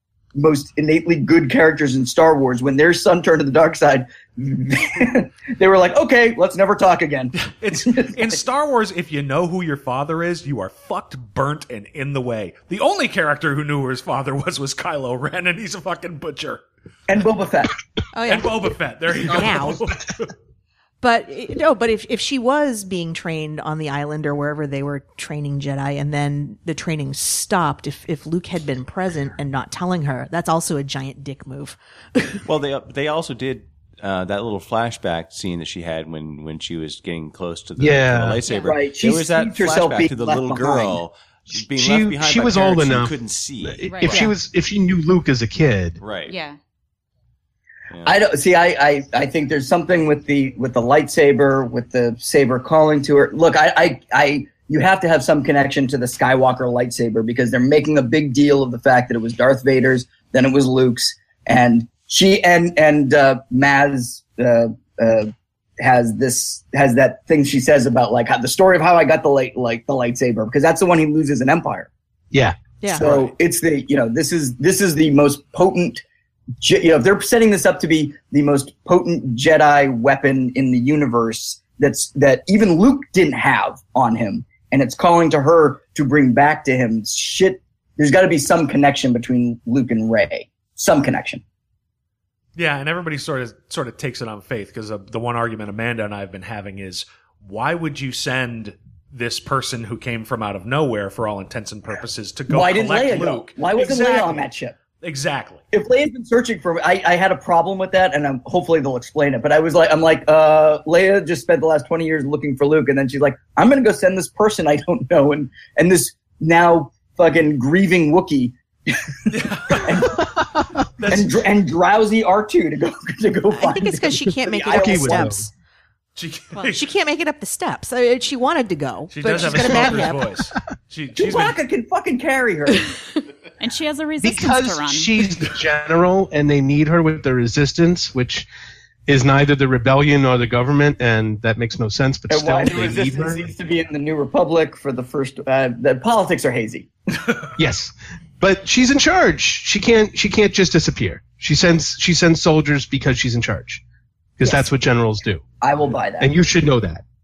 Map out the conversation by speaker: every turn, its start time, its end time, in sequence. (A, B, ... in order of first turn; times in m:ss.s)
0:00.4-0:08.4 A
0:07.4-0:16.6 B
0:17.1-0:17.8 A
0:18.1-0:18.5 C
0:18.3-0:20.3 B
0:19.3-0:19.8 C
0:21.0-0:32.4 C
0:32.5-0:44.3 D
0:37.8-0:38.4 E
0:38.4-0:38.8 F
0:38.6-0:41.0 A
0:41.8-0:46.0 E
0:43.9-0:44.3 F
0:46.0-0:46.4 D
0:46.3-0:46.6 F
0:47.9-0:48.2 D
0:48.0-1:11.9 A
1:12.3-1:12.6 E
1:12.9-1:16.0 A
1:13.0-1:13.3 B
1:16.6-1:31.4 A
1:32.6-1:44.5 B
1:42.5-1:44.8 A
1:45.0-1:45.6 B
1:45.7-1:59.1 A
1:59.3-1:59.9 B
1:59.7-2:00.2 A
2:00.2-2:00.9 E
2:01.0-2:01.3 B
2:01.1-2:05.3 A
2:03.5-2:05.5 C
2:04.7-2:05.5 E
2:06.2-2:06.8 B
2:06.6-2:10.5 C
2:09.1-2:11.6 B
2:11.2-2:12.9 A
2:13.6-2:15.3 F
2:14.2-2:18.5 E
2:19.1-2:23.5 E
2:22.3-2:26.9 A
2:27.6-2:33.8 E
2:34.4-2:35.4 E
2:35.6-2:36.3 A
2:36.2-2:37.0 E